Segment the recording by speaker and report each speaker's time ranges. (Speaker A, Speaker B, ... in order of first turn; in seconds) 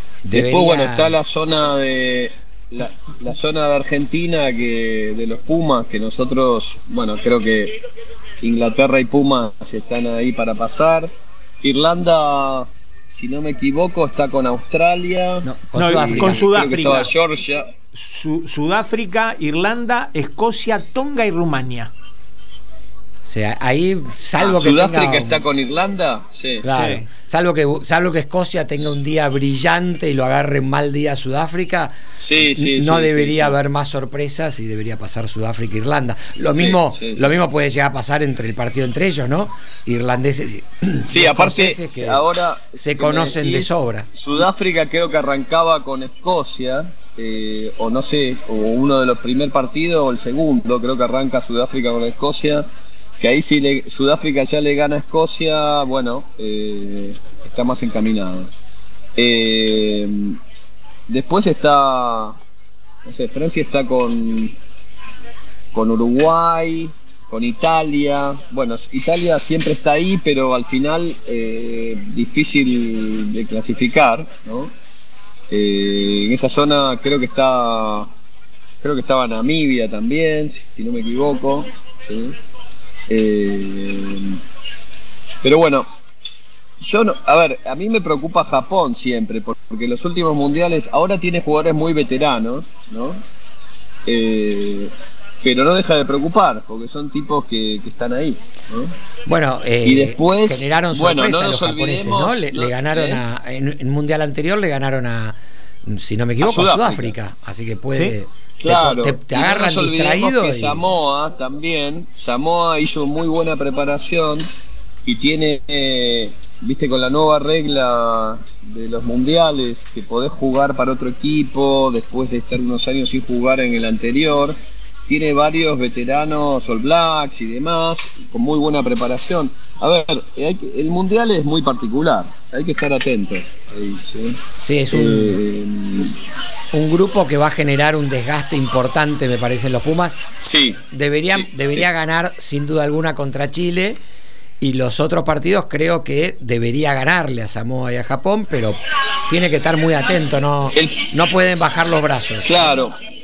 Speaker A: 0.2-1.1, 15.4-16.6, 23.3-25.4, 26.6-42.2, 42.8-44.1, 99.3-110.8, 134.6-135.4, 136.7-140.2, 140.9-144.0, 144.6-152.7
Speaker B: 0.3-7.8, 8.4-11.1, 11.6-17.7, 24.4-26.7, 32.2-33.6, 36.5-37.4, 41.1-52.6, 53.2-58.5, 59.2-60.4, 61.1-62.4, 63.1-64.5, 65.7-74.7, 75.5-78.1, 78.8-82.3, 83.1-84.4, 85.4-85.9, 86.8-93.2, 94.1-94.9, 95.4-99.0, 99.8-103.2, 106.4-107.2, 108.6-114.5, 115.1-124.6, 125.1-136.2, 140.4-141.9, 150.8-151.1, 152.4-152.9
Speaker C: 15.8-17.1, 17.9-21.9, 26.7-27.1